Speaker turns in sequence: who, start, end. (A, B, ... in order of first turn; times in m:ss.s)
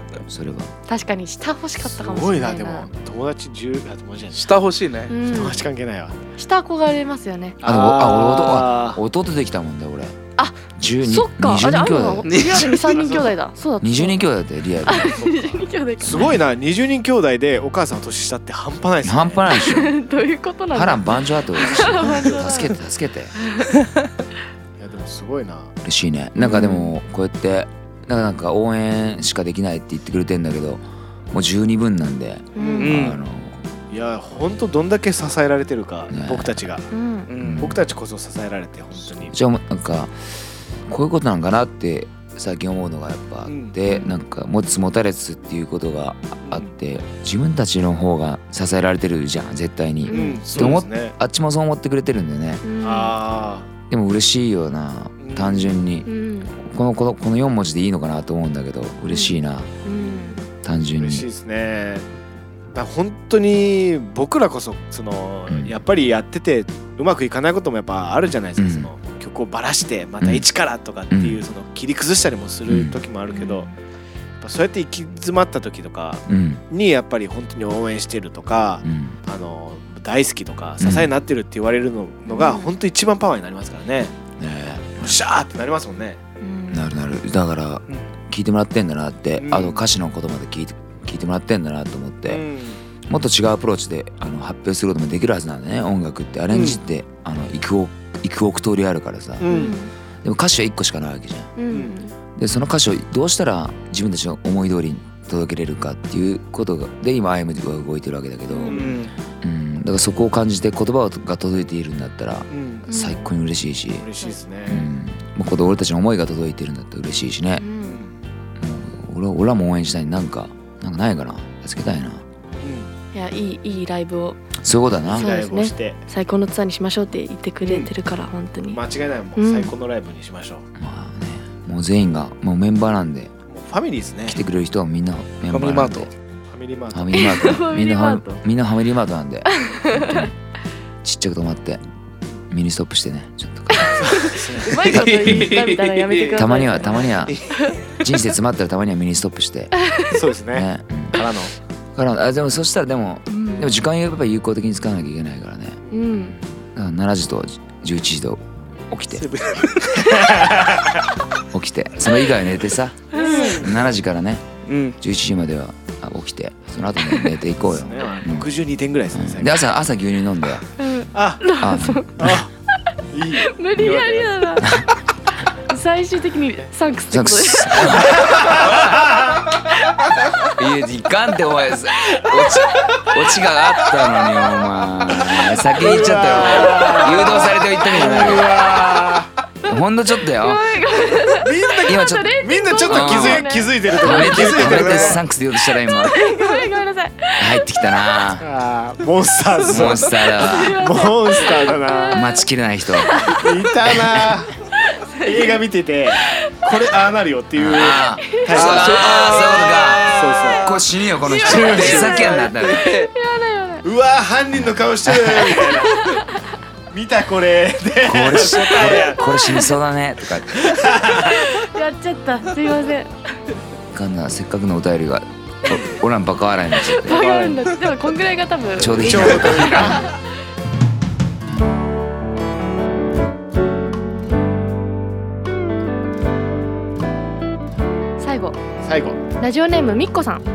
0:00.2-0:00.7 A
0:00.9-0:02.9 B
0:01.9-0:04.5 C
0:04.3-0:05.1 D
0:05.1-0:05.6 B
0:05.2-0:06.2 C
0:06.4-0:07.6 B
0:07.6-0:09.0 C
0:07.6-0:10.2 A
0:10.4-0:14.2 B
0:10.8-0:12.4 A
0:12.2-0:13.0 D
0:12.8-0:13.3 C
0:13.8-0:15.5 A
0:14.8-0:16.4 B
0:15.0-0:15.5 C
0:16.0-0:19.5 C
0:16.0-0:16.4 A
0:19.0-0:20.0 A
0:19.5-0:22.8 B
0:20.7-0:23.3 A
0:22.0-0:22.6 C
0:23.4-0:23.7 B
0:24.8-0:25.7 C
0:25.8-0:33.6 A
0:26.4-0:27.0 B
0:32.5-0:32.9 B
0:32.6-0:33.0 C
0:32.8-0:33.2 D
0:33.9-0:36.8 C
0:36.1-0:36.5 A
0:36.9-0:37.3 B
0:37.3-0:37.7 D
0:37.4-0:37.8 A
0:37.6-0:39.3 C
0:39.3-0:40.2 A
0:40.9-0:52.6 A
0:43.4-0:43.8 C
0:43.8-0:44.1 B
0:50.0-0:50.4 B
0:50.1-0:51.2 C
0:52.6-0:53.1 B
0:52.8-0:53.7 C
0:53.9-0:56.1 A
0:55.2-0:55.8 C
0:56.0-0:56.5 B
0:56.6-0:59.7 A
0:59.1-1:00.4 B
1:00.6-1:01.2 A
1:01.0-1:02.1 C
1:02.7-1:13.7 C
1:05.5-1:05.7 A
1:08.6-1:08.9 A
1:10.2-1:10.4 A
1:11.1-1:11.4 A
1:12.7-1:13.0 A
1:13.3-1:13.7 B
1:14.4-1:24.1 C
1:16.3-1:16.6 A
1:18.8-1:19.2 A
1:20.8-1:21.1 A
1:22.3-1:22.7 B
1:24.4-1:25.2 A
1:25.0-1:26.2 C
1:26.4-1:26.9 B
1:26.7-1:32.4 A
1:29.4-1:29.8 C
1:32.3-1:32.8 C
1:33.1-1:39.5 A
1:36.5-1:36.8 C
1:39.4-1:39.8 C
1:39.5-1:39.9 B
1:40.2-1:41.5 A
1:41.6-1:42.1 B
1:41.7-1:41.9 C
1:42.4-1:54.1 A
1:48.5-1:48.8 B
1:48.7-1:49.0 C
1:48.7-1:49.1 D
1:52.5-1:52.9 C
1:52.9-1:53.2 B
1:54.0-1:54.8 C
1:54.6-1:57.6 A
1:57.6-1:58.0 B
1:57.8-1:58.2 C
1:58.6-2:02.2 A
2:02.6-2:02.9 C
2:03.1-2:04.4 B
2:04.6-2:05.3 A
2:05.1-2:06.0 C
2:05.1-2:08.8 B
2:07.6-2:07.9 C
2:08.7-2:10.6 C
2:09.4-2:09.7 B
2:10.8-2:13.3 A
2:13.5-2:14.4 C
2:14.2-2:16.1 A
2:15.5-2:16.1 D
2:16.5-2:17.5 C
2:16.9-2:20.3 A
2:17.1-2:18.4 B
2:19.5-2:20.2 B
2:21.0-2:21.8 A
2:22.5-2:24.3 A
2:23.7-2:27.8 B
2:24.0-2:24.9 C
2:24.8-2:26.4 D
2:25.2-2:25.5 A
2:26.3-2:27.4 A
2:27.3-2:27.6 D
2:27.9-2:29.8 A
2:29.8-2:30.1 B
2:30.1-2:31.5 C
2:30.5-2:31.2 A
2:31.9-2:35.8 A
2:33.3-2:33.7 B
2:35.9-2:36.4 B
2:36.4-2:39.3 A
2:39.2-2:40.2 D
2:40.0-2:40.9 C
2:41.5-2:44.4 A
2:43.1-2:43.6 B
2:43.1-2:43.8 C
2:44.6-2:45.0 D
2:45.0-2:48.5 A
2:47.6-2:49.6 C
2:49.1-2:50.6 A
2:50.8-2:52.4 B
2:51.1-2:51.4 C
2:51.6-2:52.3 A
2:52.2-2:52.5 C
2:53.1-2:54.3 C
2:53.4-2:54.7 B
2:54.6-2:54.9 A
2:55.5-2:58.3 B
2:57.1-2:58.9 A
2:58.1-2:59.4 C
3:00.5-3:08.6 A
3:05.7-3:09.3 C
3:06.8-3:07.3 B
3:09.6-3:10.8 A
3:10.3-3:15.1 B
3:11.3-3:15.2 C
3:11.8-3:16.2 A
3:14.7-3:15.1 D
3:15.9-3:17.6 B
3:17.4-3:18.4 A
3:18.4-3:22.3 C
3:19.6-3:20.8 A
3:19.7-3:20.0 D
3:20.3-3:22.4 B
3:22.1-3:23.2 A
3:23.0-3:23.5 B
3:23.2-3:24.6 C
3:24.0-3:24.3 A
3:24.8-3:25.6 B
3:25.2-3:29.2 C
3:26.3-3:26.5 B
3:27.6-3:32.9 A
3:28.2-3:28.5 B
3:28.5-3:30.8 D
3:30.1-3:30.7 C
3:31.2-3:33.8 B
3:31.4-3:32.1 C
3:31.4-3:33.1 D
3:33.8-3:36.2 C
3:34.6-3:35.8 A
3:35.7-3:36.4 B
3:36.9-3:39.2 C
3:38.0-3:40.8 A
3:38.5-3:39.7 B
3:40.5-3:41.5 C
3:41.1-3:43.1 B
3:43.9-3:47.3 A
3:47.0-3:50.2 B
3:47.1-3:47.6 C
3:48.8-3:50.0 A
3:48.8-3:50.0 C
3:58.2-3:58.6 B
3:58.8-3:59.2 C
3:59.4-4:00.5 B